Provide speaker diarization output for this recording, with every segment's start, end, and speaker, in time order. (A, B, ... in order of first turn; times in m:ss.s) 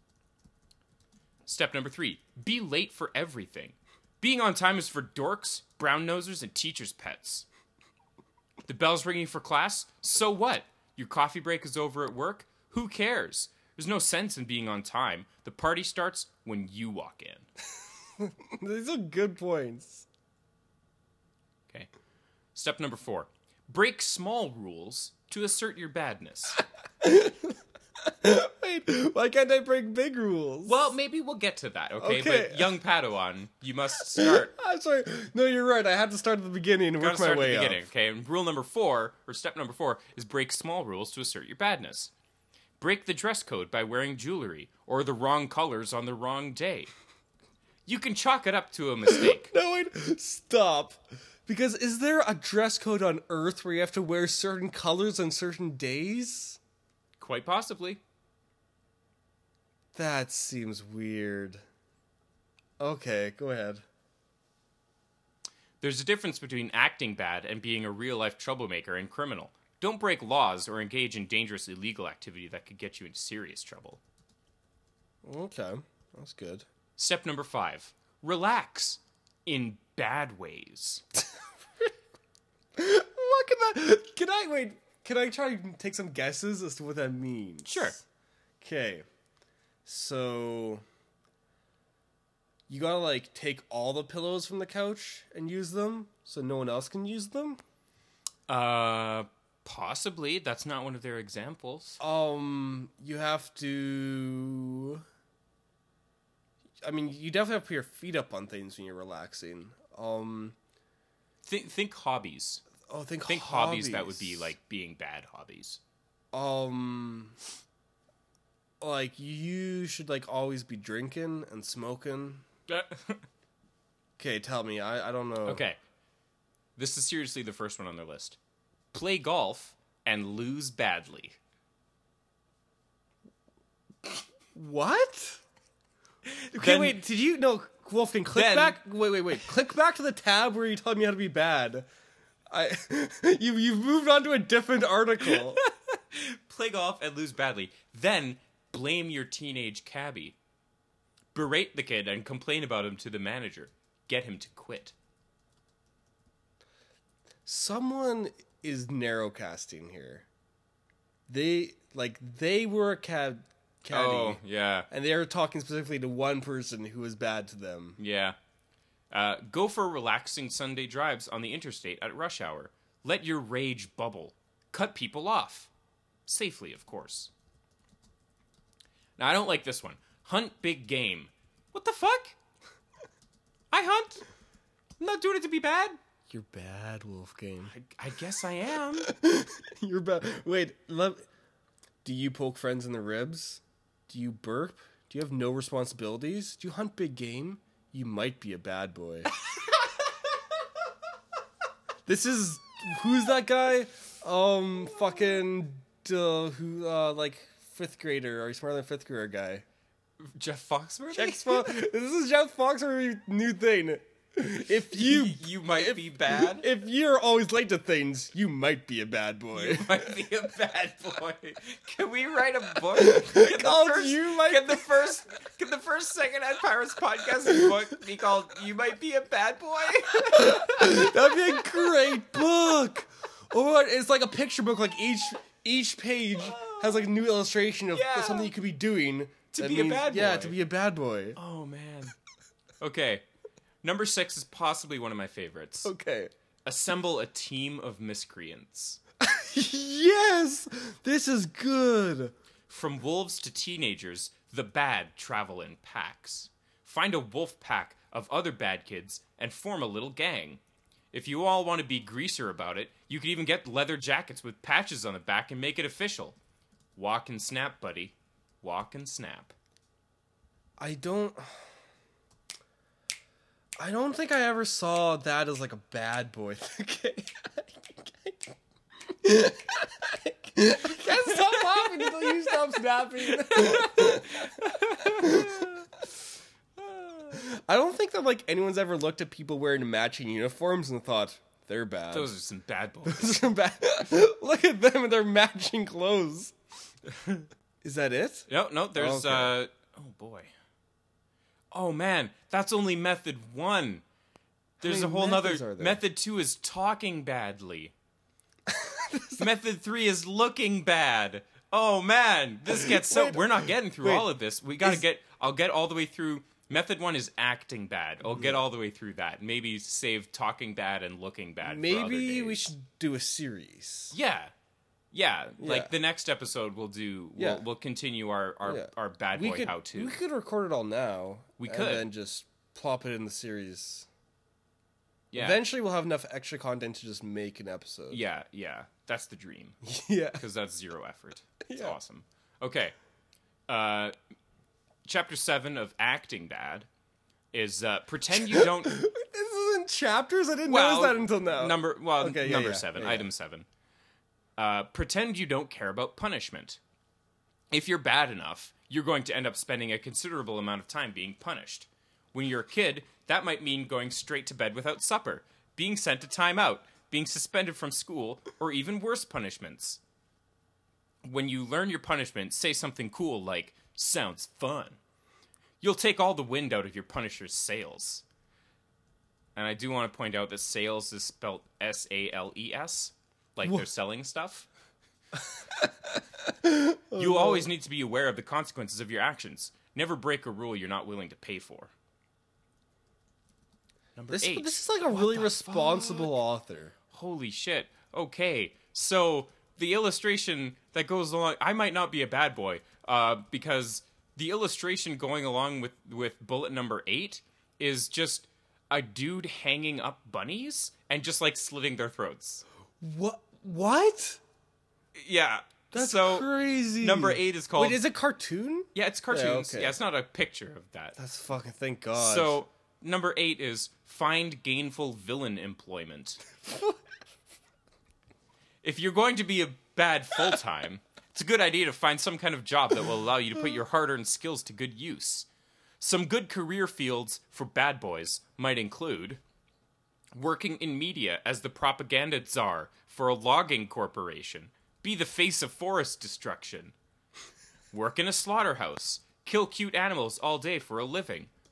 0:01.5-0:07.5 A
0:08.7-0:17.5 A
0:18.2-0:20.1 B
0:22.6-0:26.6 A
0:27.0-0:30.9 B
0:30.6-0:34.5 A
0:32.0-0:32.8 B
0:34.0-0:37.8 B
0:37.0-0:42.1 A
0:42.8-0:46.9 A
0:47.9-0:49.5 A
0:49.1-0:56.6 B
0:57.2-0:58.0 A
0:59.9-1:01.6 B
1:02.8-1:03.8 B
1:05.8-1:14.0 A
1:15.2-1:16.7 B
1:17.0-1:21.0 A
1:22.8-1:27.9 B
1:27.7-1:28.0 A
1:28.6-1:29.1 B
1:29.8-1:30.8 B
1:32.7-1:37.6 B
1:38.5-1:42.0 A
1:42.0-1:45.0 B
1:46.8-1:50.6 B
1:51.4-1:52.6 A
1:52.8-1:54.5 B
1:53.3-1:55.8 A
1:56.3-1:57.4 B
1:58.8-2:02.5 B
2:02.7-2:03.2 A
2:04.2-2:05.6 B
2:05.5-2:05.8 A
2:06.8-2:08.4 A
2:08.9-2:11.4 A
2:14.5-2:15.4 B
2:16.4-2:17.0 A
2:16.5-2:21.9 B
2:18.3-2:18.8 A
2:22.5-2:25.6 B
2:25.3-2:30.4 A
2:31.3-2:35.0 A
2:37.4-2:40.3 B
2:41.3-2:48.0 B
2:43.9-2:44.9 A
2:48.0-2:48.4 A
2:49.1-2:55.7 A
2:56.3-2:57.3 A
2:59.2-3:02.4 A
3:03.7-3:04.2 A
3:05.0-3:06.0 A
3:06.3-3:07.7 B
3:07.7-3:09.1 A
3:09.1-3:11.2 B
3:12.0-3:19.3 B
3:22.0-3:29.6 B
3:30.2-3:31.7 A
3:31.1-3:40.2 B
3:34.9-3:36.7 A
3:39.5-3:51.9 A
3:43.0-3:44.9 B
3:50.3-4:01.4 B
3:56.4-3:57.0 A
3:57.9-3:58.5 A
3:59.5-4:00.6 A
4:01.4-4:02.1 A
4:02.8-4:03.2 A
4:03.8-4:05.9 A
4:05.8-4:06.3 B
4:06.6-4:09.0 A
4:09.2-4:12.3 B
4:12.7-4:20.6 A
4:21.1-4:26.4 A
4:27.0-4:29.6 A
4:30.8-4:31.6 B
4:33.8-4:38.6 B
4:39.1-4:44.5 B
4:41.2-4:42.3 A
4:43.3-4:45.8 A
4:45.0-4:45.8 B
4:46.8-4:47.4 A
4:47.3-4:52.3 B
4:52.1-4:53.4 A
4:53.1-4:56.6 B
4:57.1-4:57.4 A
4:57.8-4:59.6 B
4:58.5-5:00.5 A
5:01.7-5:04.0 A
5:04.8-5:06.0 B
5:04.8-5:07.9 A
5:08.7-5:09.5 B
5:09.4-5:22.7 A
5:12.7-5:15.0 B
5:18.3-5:18.6 B
5:21.6-5:24.2 B
5:24.1-5:24.5 A
5:25.1-5:30.2 A
5:25.6-5:25.9 B
5:27.4-5:27.6 B
5:28.6-5:34.1 B
5:31.6-5:32.1 A
5:35.3-5:35.6 A
5:35.4-5:38.2 B
5:38.1-5:39.8 A
5:39.8-5:40.4 B
5:40.4-5:43.0 A
5:41.7-5:42.0 B
5:43.7-5:44.1 A
5:45.1-5:46.9 A
5:47.5-5:49.1 A
5:48.4-5:53.3 B
5:50.7-5:53.7 A
5:54.6-5:56.8 A
5:57.7-6:10.0 A
6:11.2-6:15.0 A
6:15.8-6:18.2 A
6:19.6-6:24.7 A
6:25.7-6:27.7 B
6:27.2-6:31.9 A
6:34.2-6:36.3 A
6:34.3-6:36.9 B
6:37.1-6:52.6 A
6:53.0-6:54.4 B
6:55.2-6:58.0 A
6:55.9-7:00.0 B
6:58.9-7:01.2 A
7:01.2-7:02.6 B
7:02.1-7:06.4 A
7:06.6-7:07.0 B
7:08.8-7:15.5 A
7:16.0-7:19.4 A
7:20.4-7:27.0 A
7:27.9-7:31.5 A